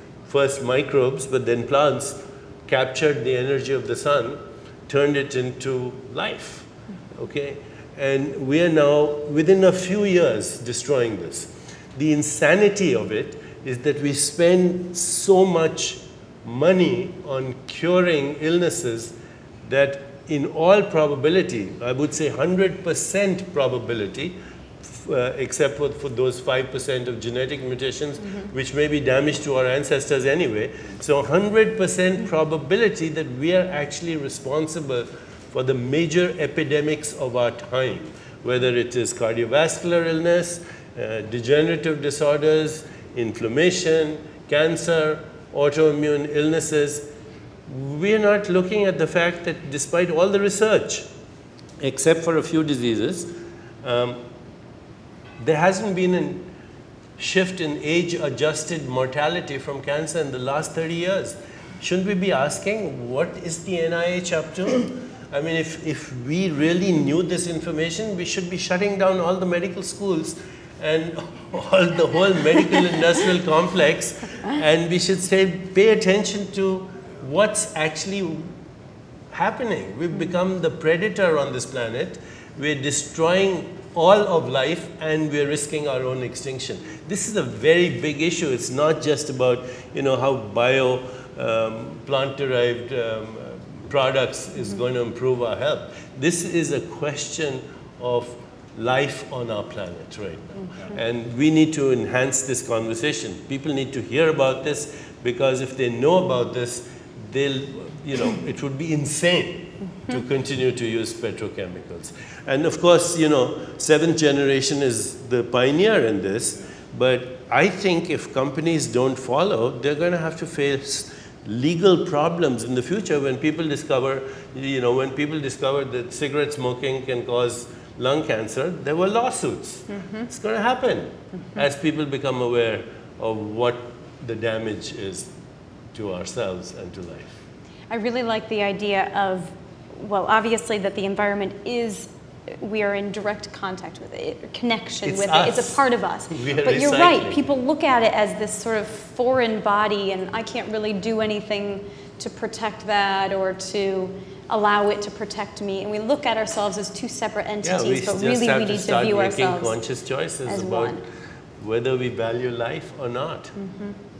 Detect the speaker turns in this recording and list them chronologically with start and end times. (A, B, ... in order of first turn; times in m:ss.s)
0:00.3-0:47.0 A
0:47.7-0:51.1 A
0:51.8-0:53.3 A
0:53.8-0:54.2 A
0:55.4-0:56.5 A
0:57.2-1:18.5 A
1:19.3-2:15.3 A
2:09.9-2:10.3 B
2:15.9-2:17.4 A
2:17.9-2:39.7 B
2:25.0-2:27.4 A
2:37.6-2:41.0 A
2:40.4-2:41.0 B
2:41.6-2:43.5 A
2:43.6-2:44.0 B